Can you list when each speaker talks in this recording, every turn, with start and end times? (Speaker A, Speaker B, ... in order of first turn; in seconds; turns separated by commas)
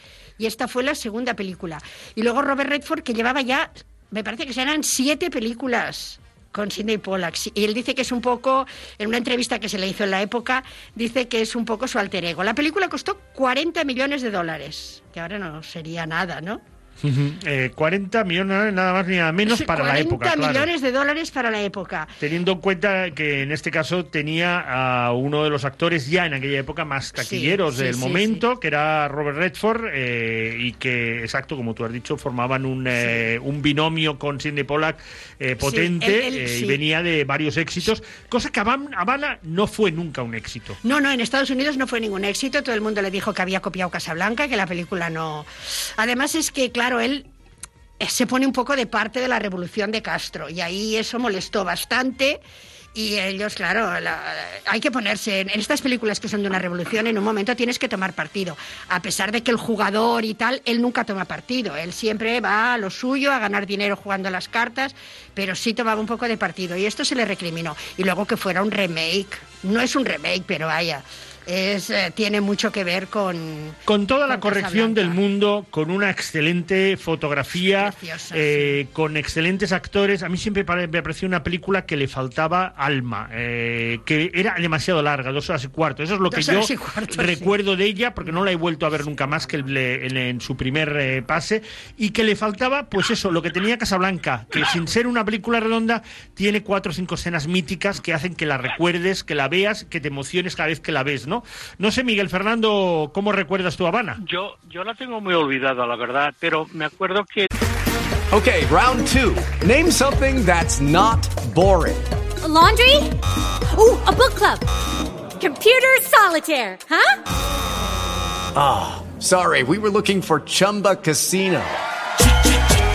Speaker A: 0.4-16.6, Speaker B: 17.0-20.7, Speaker A: 19.5-22.1, Speaker B: 22.2-40.8, Speaker A: 27.2-28.4, Speaker A: 35.6-36.8, Speaker A: 40.8-47.2, Speaker A: 48.0-52.4, Speaker A: 53.0-75.2, Speaker B: 73.9-104.2, Speaker A: 77.8-78.8, Speaker A: 86.3-87.5, Speaker C: 104.2-107.5, Speaker D: 108.3-112.1, Speaker E: 112.4-113.1, Speaker E: 113.7-114.6, Speaker E: 115.4-117.2, Speaker D: 118.5-121.8